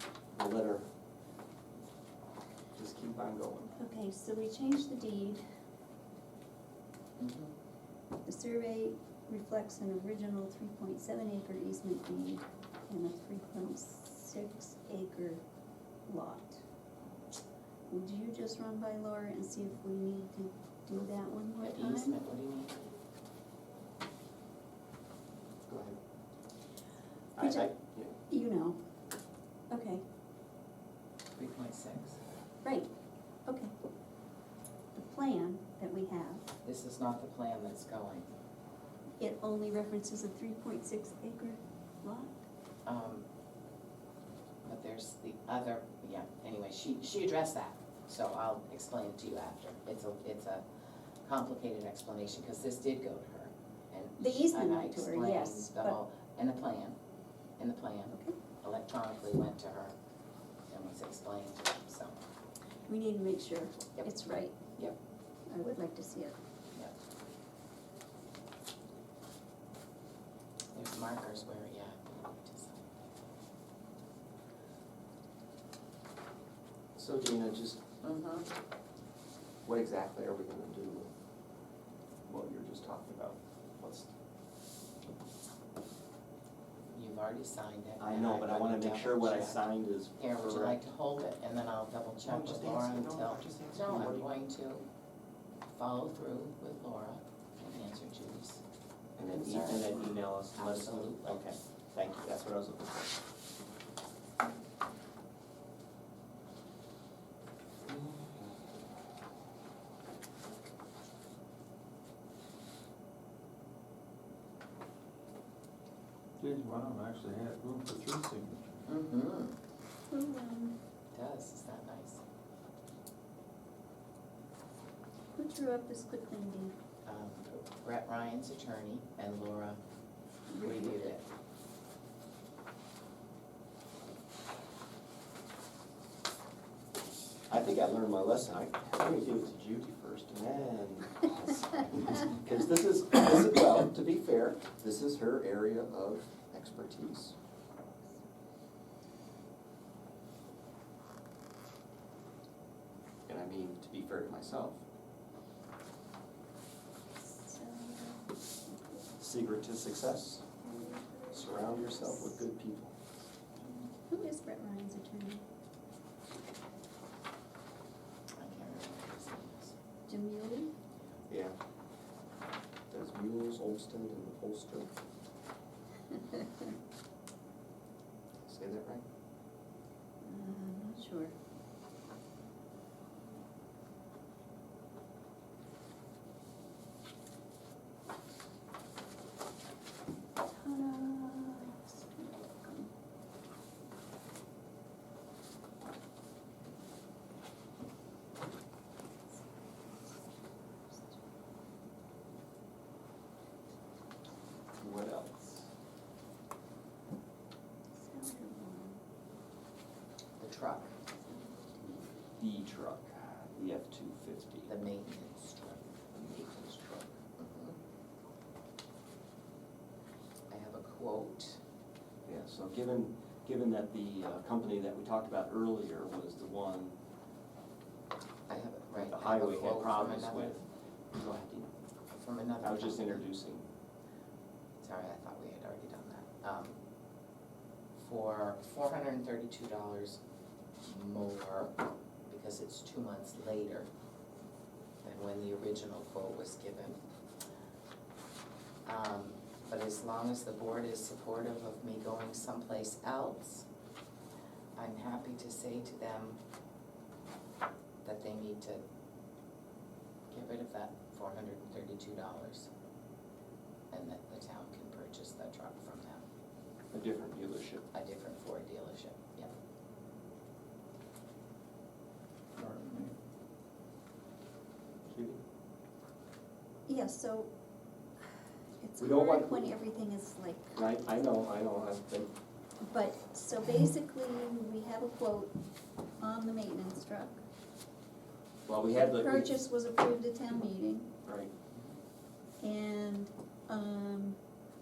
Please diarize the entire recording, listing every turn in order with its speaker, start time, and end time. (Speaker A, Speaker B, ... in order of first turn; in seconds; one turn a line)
Speaker A: 0.3-0.8
Speaker A: 2.8-3.7
Speaker B: 3.8-5.4
Speaker C: 7.2-7.5
Speaker B: 8.2-15.4
Speaker B: 16.1-16.6
Speaker B: 17.9-22.2
Speaker C: 21.6-22.8
Speaker A: 25.7-26.0
Speaker A: 27.4-28.1
Speaker B: 27.4-27.7
Speaker B: 28.3-28.8
Speaker B: 29.7-30.0
Speaker C: 31.4-32.2
Speaker B: 32.6-32.9
Speaker B: 33.5-33.7
Speaker B: 34.9-36.5
Speaker C: 36.6-38.3
Speaker B: 39.2-42.4
Speaker C: 42.9-43.2
Speaker C: 44.6-50.6
Speaker C: 51.2-57.0
Speaker B: 54.2-56.0
Speaker C: 57.6-59.9
Speaker B: 58.1-58.4
Speaker C: 60.7-62.2
Speaker B: 62.9-64.6
Speaker B: 65.5-66.4
Speaker C: 70.7-73.0
Speaker A: 77.0-77.8
Speaker C: 78.0-78.5
Speaker A: 79.7-81.1
Speaker A: 82.3-84.1
Speaker C: 86.9-89.6
Speaker A: 88.0-90.8
Speaker C: 90.2-94.8
Speaker A: 92.2-94.3
Speaker C: 95.7-98.6
Speaker A: 99.2-103.2
Speaker C: 99.2-101.4
Speaker D: 116.4-118.8
Speaker C: 118.9-119.6
Speaker B: 120.1-120.8
Speaker C: 121.1-122.2
Speaker B: 125.4-126.8
Speaker C: 127.0-129.8
Speaker B: 130.5-131.1
Speaker C: 130.6-131.2
Speaker A: 137.5-147.3
Speaker A: 153.3-154.8
Speaker B: 157.2-158.3
Speaker A: 159.2-160.4
Speaker B: 160.6-162.4
Speaker A: 161.3-162.9
Speaker B: 163.6-165.4
Speaker C: 168.3-169.8
Speaker B: 170.1-170.7
Speaker A: 171.3-171.6
Speaker A: 172.9-174.9
Speaker A: 178.4-179.0
Speaker B: 180.2-181.3
Speaker B: 190.5-192.9
Speaker A: 204.8-205.6
Speaker B: 208.0-209.0
Speaker C: 210.4-210.9
Speaker B: 211.1-212.1
Speaker A: 212.4-214.7
Speaker C: 214.7-215.8
Speaker A: 216.1-217.2
Speaker C: 217.4-217.8
Speaker C: 220.5-221.6
Speaker A: 222.2-227.0
Speaker C: 228.5-230.6
Speaker A: 229.0-231.7
Speaker C: 232.1-233.2
Speaker A: 232.6-233.7
Speaker C: 234.8-236.8
Speaker C: 238.0-240.2
Speaker C: 240.8-243.9
Speaker C: 245.0-247.0
Speaker C: 248.9-253.7
Speaker C: 254.8-256.4
Speaker C: 258.0-258.8
Speaker C: 260.3-262.7
Speaker C: 263.9-266.2
Speaker A: 266.9-267.9
Speaker C: 267.9-269.5
Speaker D: 272.6-273.1
Speaker A: 275.1-275.4
Speaker B: 276.9-277.5
Speaker B: 278.8-280.8
Speaker A: 279.0-279.7
Speaker A: 280.8-282.3
Speaker B: 282.8-285.5
Speaker B: 286.2-287.4
Speaker A: 288.6-289.5
Speaker B: 288.9-291.1
Speaker A: 291.2-291.5
Speaker B: 292.6-294.4